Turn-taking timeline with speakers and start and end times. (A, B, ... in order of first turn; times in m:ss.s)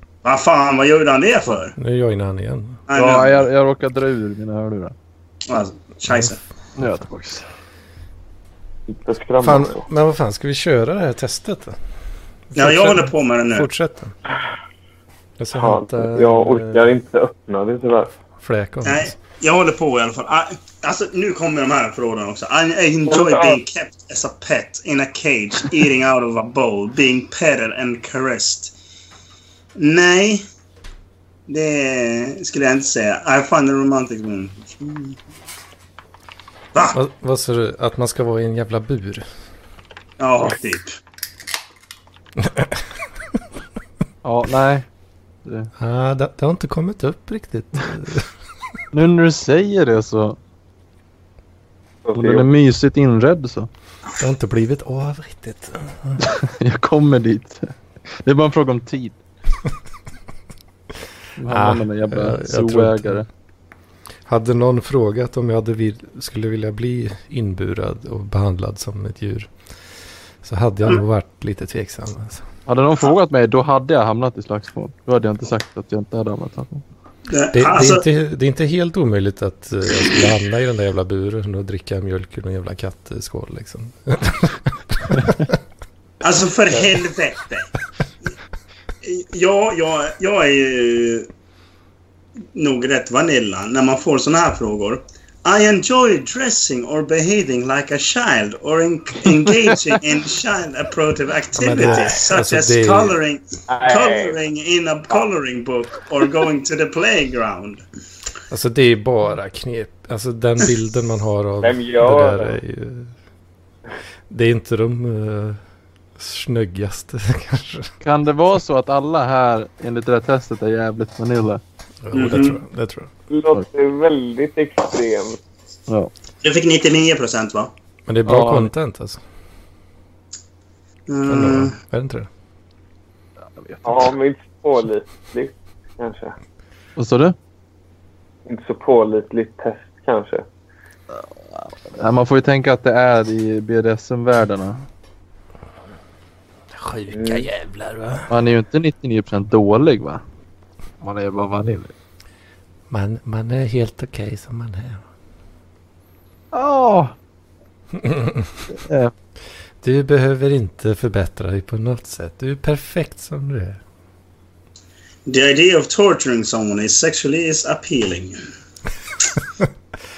0:00.2-0:01.7 A
0:01.7-0:02.8 B
0:02.9-0:03.4 A
0:02.9-0:04.9 C
0:05.5-0:06.4 A
0:06.8-0:07.5 C
0:08.9-0:09.8 D
0:09.4-0:11.8 B
0:12.5-0:14.1 B
0:12.5-0:13.7 A
0:15.4-0:16.8 B
0:15.5-0:18.1 D
0:18.4-0:19.1 B
0:18.8-0:28.7 A
0:23.1-0:23.6 D
0:29.8-0:30.4 A
0:31.5-0:35.2 A
0:36.9-0:39.2 B
0:40.2-0:41.0 A
0:42.4-0:42.8 B
0:44.2-0:44.8 C
0:45.4-0:45.7 C
0:45.8-0:48.3 B
0:48.9-0:50.4 C
0:52.0-0:52.5 D
0:52.1-0:53.7 C
0:54.2-0:56.2 B
0:56.2-0:59.2 C
1:01.4-1:03.2 C
1:01.5-1:03.2 B
1:04.2-1:09.5 B
1:10.4-1:12.4 B
1:12.6-1:16.8 C
1:17.3-1:18.0 A
1:17.5-1:25.6 B
1:26.2-1:27.7 A
1:29.0-1:31.3 A
1:32.5-1:47.8 A
1:41.5-1:43.2 B
1:43.7-1:44.4 D
1:48.5-1:53.1 B
1:51.6-1:52.6 D
1:54.3-1:55.6 B
1:56.2-1:57.9 B
1:58.0-2:01.6 C
2:02.0-2:03.1 B
2:02.1-2:02.6 A
2:03.3-2:05.4 D
2:06.4-2:07.7 A
2:08.1-2:09.2 B
2:08.2-2:08.7 C
2:11.1-2:11.7 A
2:11.3-2:12.3 B
2:13.6-2:14.1 C
2:13.8-2:16.3 D
2:17.0-2:17.4 C
2:18.5-2:20.4 D
2:21.1-2:24.8 C
2:26.7-2:28.3 B
2:27.1-2:27.4 D
2:28.3-2:30.2 C
2:31.0-2:31.9 C
2:32.9-2:35.0 B
2:36.5-2:37.1 C
2:38.0-2:38.6 B
2:38.7-2:39.1 C
2:39.8-2:43.8 B
2:45.2-2:48.4 A